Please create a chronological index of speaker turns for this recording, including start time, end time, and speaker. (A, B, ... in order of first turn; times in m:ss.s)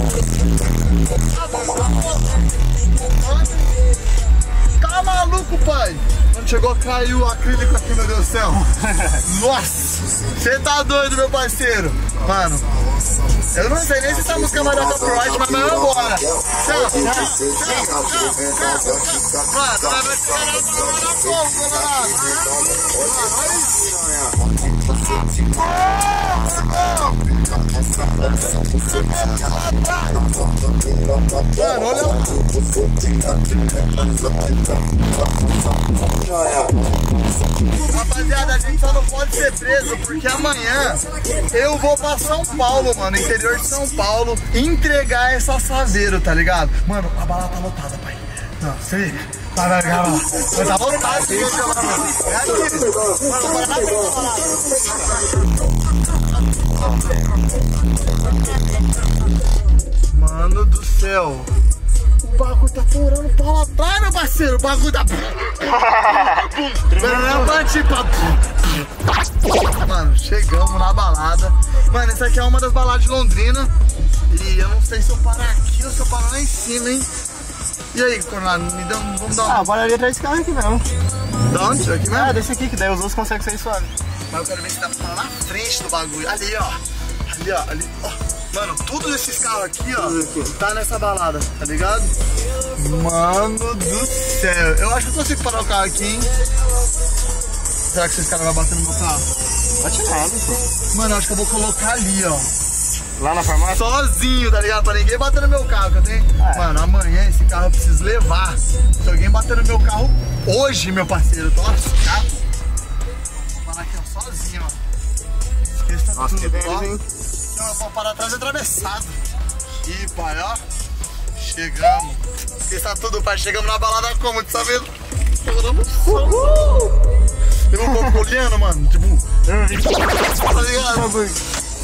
0:01.3-0:02.4 A
0:03.1-0:03.7 A
0:04.8-0:12.7 A
0:13.5-0:23.8 A
0:23.0-0:24.4 B
0:26.4-0:27.1 A
0:31.5-0:32.4 A
0:37.8-0:54.5 A
1:00.1-1:01.5 A
1:02.2-1:08.6 A
1:07.0-1:07.3 B
1:09.6-1:13.7 A
1:14.3-1:17.1 A
1:17.9-1:19.7 A
1:19.3-1:20.9 B
1:21.5-1:22.4 A
1:22.1-1:23.9 B
1:24.3-1:32.1 A
1:30.0-1:30.5 B
1:32.7-1:36.3 A
1:37.9-1:39.3 A
1:39.8-1:40.6 B
1:40.9-1:42.5 A
1:43.2-1:43.8 B
1:43.7-1:52.4 A
1:46.4-1:46.6 B
1:53.3-1:54.8 A
1:55.7-1:57.0 A
1:56.1-1:57.0 B
1:57.5-1:59.2 A
1:59.8-2:00.6 A
2:01.4-2:06.5 A
2:06.1-2:06.9 B
2:07.7-2:09.2 A
2:09.5-2:10.0 B
2:10.4-2:11.1 A
2:10.8-2:11.4 B